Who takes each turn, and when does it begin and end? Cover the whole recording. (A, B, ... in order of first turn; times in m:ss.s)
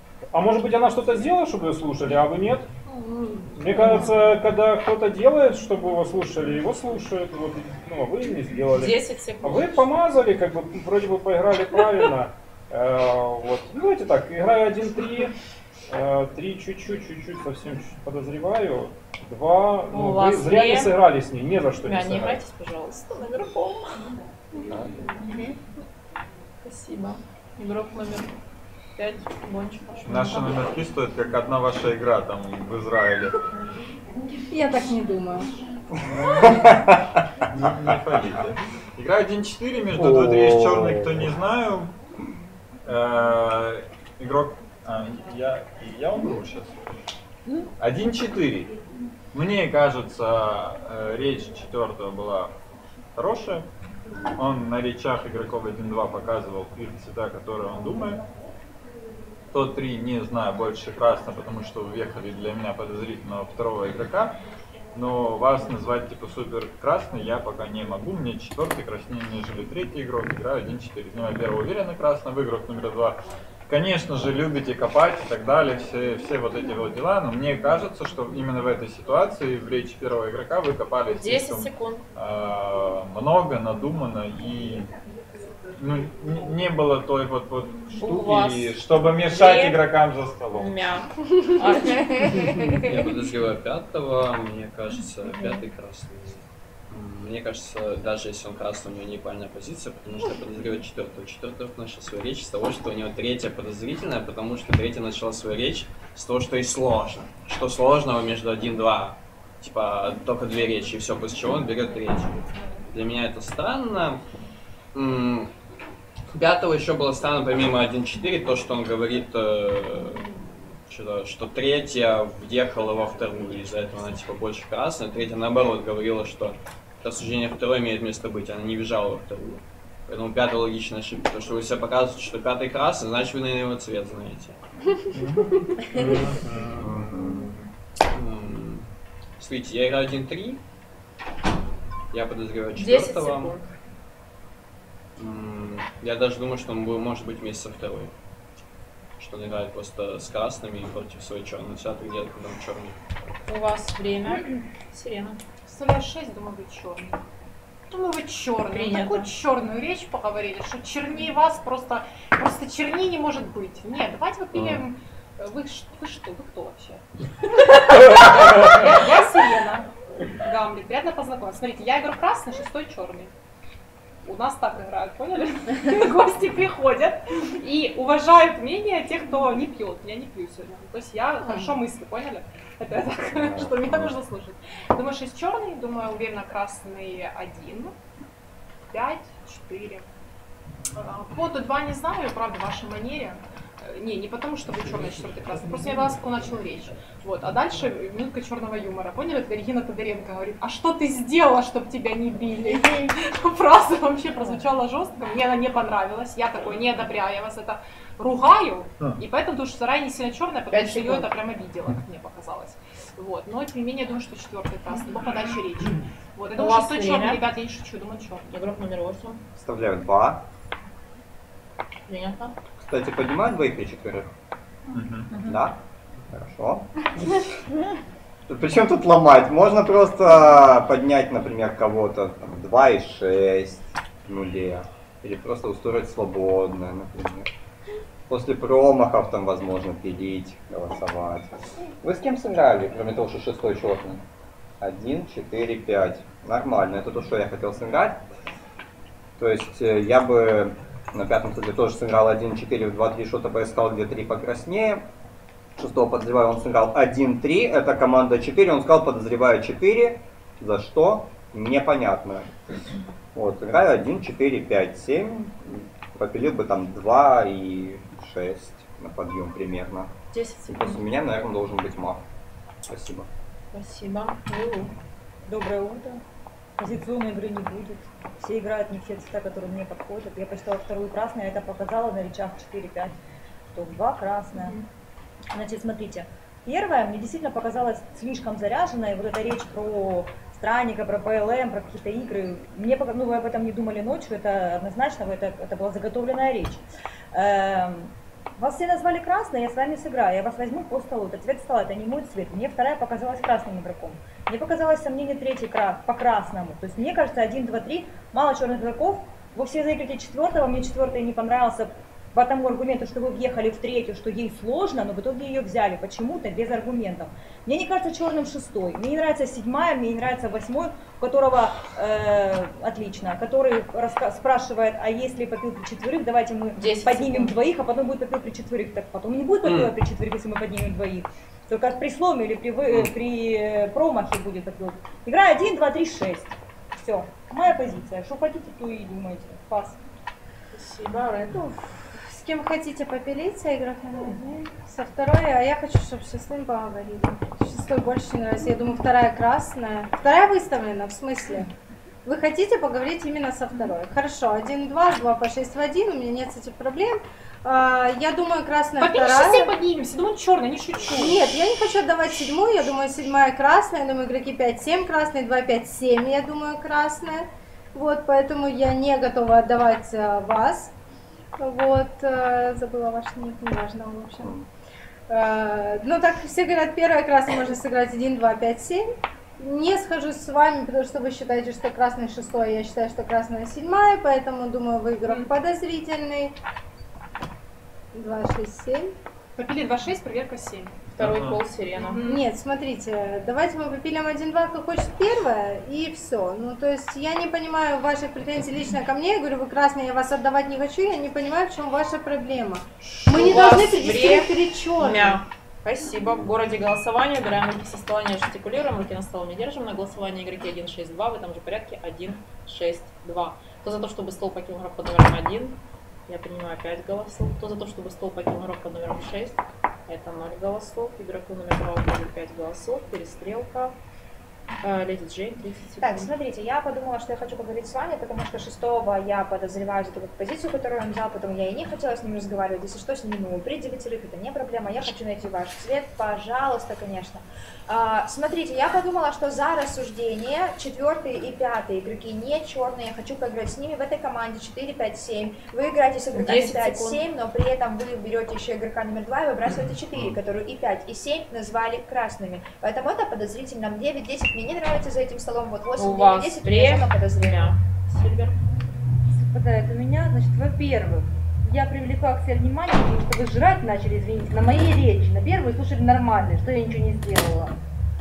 0:00.3-0:02.7 A
0:02.9-0:04.1 B
0:03.6-0:15.3 A
0:08.7-0:09.9 B
0:15.9-0:22.4 A
0:19.9-0:21.0 B
0:21.8-0:24.0 B
0:26.6-0:28.4 B
0:29.0-0:30.6 B
0:30.0-0:33.4 C
0:34.5-0:35.5 D
0:36.0-0:36.8 C
0:36.2-0:37.0 E
0:37.5-0:41.9 C
0:39.9-0:41.4 E
0:42.8-0:46.8 C
0:47.8-0:48.7 C
0:49.3-0:52.6 C
0:53.2-0:53.7 C
0:54.4-0:58.2 C
0:59.5-1:04.4 C
1:04.9-1:24.9 C
1:21.1-1:22.0 B
1:25.8-1:30.8 C
1:28.0-1:29.8 B
1:30.5-1:32.8 B
1:32.8-1:52.4 F
1:52.9-1:54.2 F
1:54.9-1:55.5 F
1:56.3-2:14.6 F
2:15.9-2:17.6 E
2:18.1-2:18.9 F
2:19.4-2:20.6 F
2:22.1-2:23.6 F
2:22.8-2:23.7 B
2:25.2-2:28.1 F
2:29.2-2:33.0 F
2:33.5-2:35.4 B
2:35.7-2:37.2 G
2:37.9-2:47.0 G
2:38.7-2:39.3 B
2:44.5-2:44.8 E
2:48.0-2:49.9 G
2:48.6-2:48.9 B
2:50.4-2:53.3 G
2:54.2-3:08.0 G
3:01.5-3:01.8 D
3:03.3-3:04.2 E
3:08.9-3:10.1 G
3:11.0-3:38.5 G
3:30.7-3:31.3 B
3:36.6-3:37.4 B
3:38.5-3:39.4 B
3:39.6-3:40.4 E
3:42.1-3:42.6 B
3:42.8-3:44.3 E
3:44.9-3:45.6 C
3:45.4-3:45.8 E
3:46.3-3:46.9 E
3:48.5-3:57.5 E
3:58.3-4:04.2 E
4:04.8-4:08.2 E
4:09.4-4:15.0 E
4:15.8-4:22.5 E
4:23.4-4:30.1 E
4:30.3-4:31.0 B
4:30.7-4:32.2 E
4:32.9-4:33.3 E
4:33.7-4:34.9 B
4:35.4-4:36.2 H
4:36.8-4:43.2 H
4:43.7-4:44.8 H
4:45.5-5:40.0 H
5:26.8-5:27.5 B
5:29.6-5:30.0 F
5:40.7-5:41.9 B
5:42.1-5:51.7 D
5:52.2-5:59.7 D
5:59.0-6:01.4 G
6:01.1-6:10.9 D
6:11.6-6:14.6 D
6:14.4-6:14.6 E
6:15.3-6:19.1 D
6:19.6-6:26.6 D
6:25.2-6:25.5 G
6:28.1-6:29.2 D
6:29.6-6:31.0 G
6:31.2-6:32.2 B
6:31.2-6:31.6 C
6:32.0-6:32.5 G
6:32.2-6:45.4 D
6:43.0-7:04.0 B
7:04.8-7:06.3 B
7:06.0-7:37.8 I
7:26.3-7:27.2 B
7:36.0-7:38.6 B
7:39.4-7:47.8 J